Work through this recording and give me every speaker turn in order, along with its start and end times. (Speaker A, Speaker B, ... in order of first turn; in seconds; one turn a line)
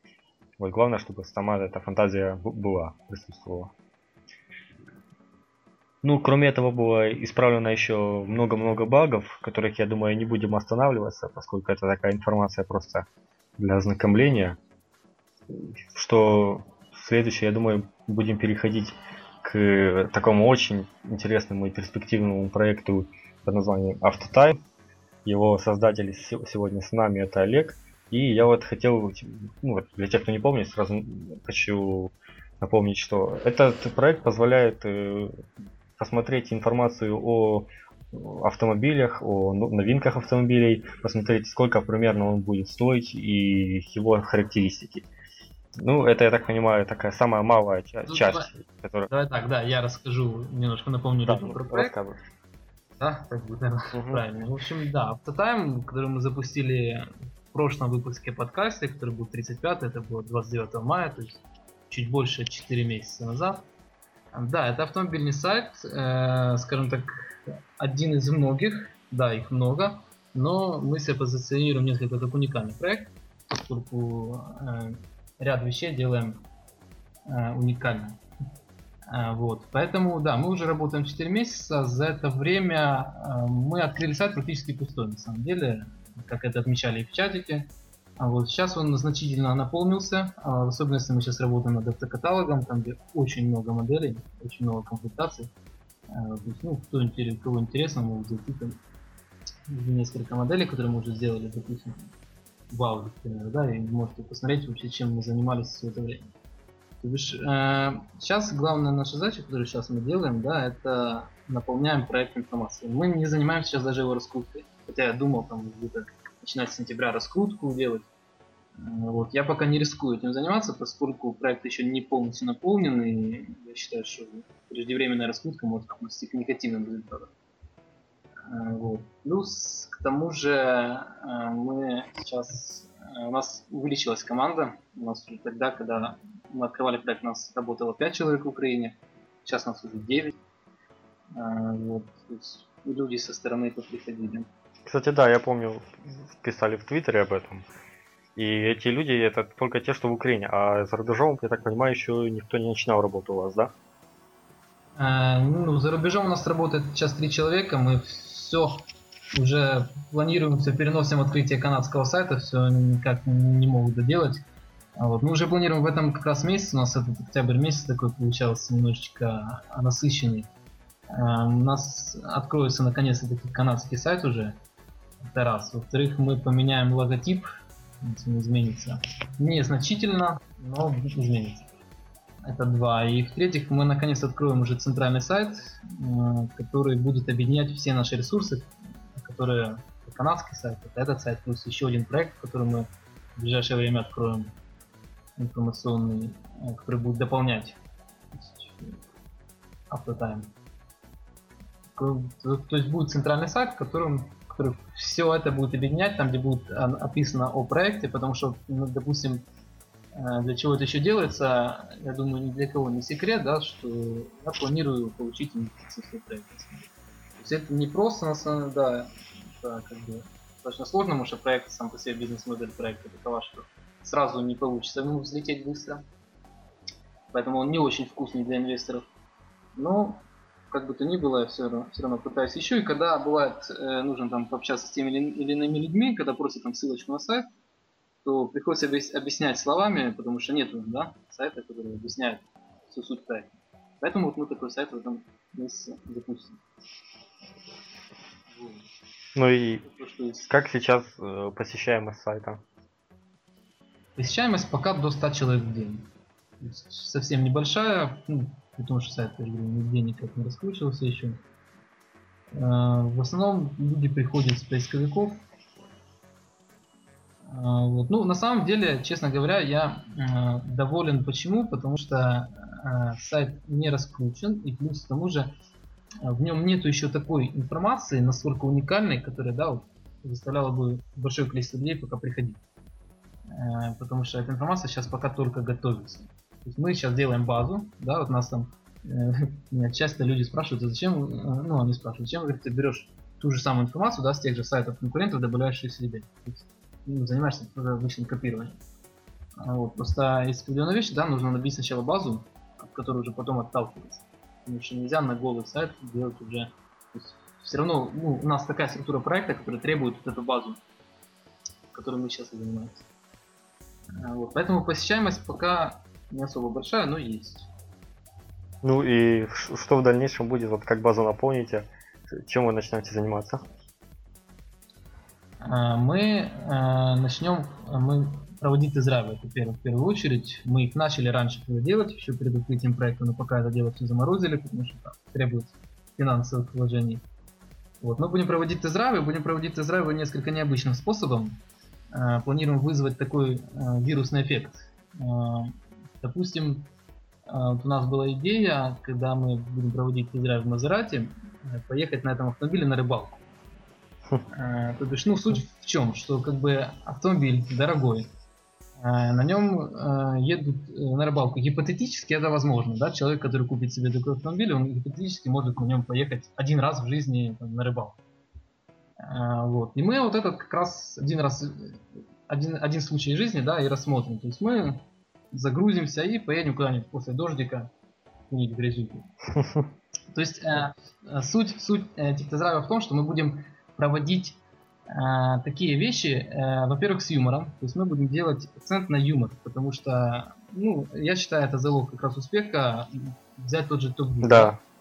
Speaker A: 0.6-3.7
Speaker A: 6.0-13.1
Speaker A: 13.6-14.6
Speaker A: 15.5-24.6
Speaker A: 25.2-35.4
Speaker A: 36.0-45.1
Speaker A: 45.8-49.1
Speaker B: 48.1-48.5
Speaker B: 49.1-51.9
Speaker A: 51.3-52.2
Speaker B: 53.0-63.7
Speaker A: 53.9-54.2
Speaker B: 64.3-76.5
Speaker B: 77.3-78.2
Speaker B: 79.1-95.5
Speaker B: 96.1-98.8
Speaker B: 99.7-102.1
Speaker B: 102.7-106.3
Speaker B: 107.0-118.1
Speaker B: 118.8-127.3
Speaker B: 128.4-140.4
Speaker B: 141.3-144.5
Speaker A: 144.9-147.7
Speaker A: 148.4-153.7
Speaker B: 155.0-164.4
Speaker B: 165.0-170.5
Speaker B: 171.1-174.6
Speaker B: 175.2-177.5
Speaker B: 178.0-181.7
Speaker B: 182.4-194.6
Speaker B: 195.4-197.8
Speaker B: 198.3-199.0
Speaker B: 199.9-200.5
Speaker B: 202.0-209.5
Speaker B: 210.1-226.1
Speaker B: 227.3-229.1
Speaker B: 229.8-237.5
Speaker B: 238.2-246.6
Speaker B: 248.5-248.9
Speaker A: 249.4-249.9
Speaker B: 249.8-250.4
Speaker A: 250.4-252.6
Speaker B: 254.2-261.4
Speaker B: 262.5-265.4
Speaker B: 267.4-275.5
Speaker B: 276.2-282.6
Speaker B: 283.5-298.8
Speaker B: 299.6-310.8
Speaker B: 311.9-313.0
Speaker B: 314.2-317.7
Speaker A: 318.8-323.6
Speaker B: 325.6-337.2
Speaker B: 338.0-346.9
Speaker B: 347.5-353.4
Speaker B: 354.5-358.3
Speaker B: 359.0-368.2
Speaker B: 369.2-377.9
Speaker B: 378.5-379.3
Speaker B: 380.3-394.8
Speaker A: 394.4-394.8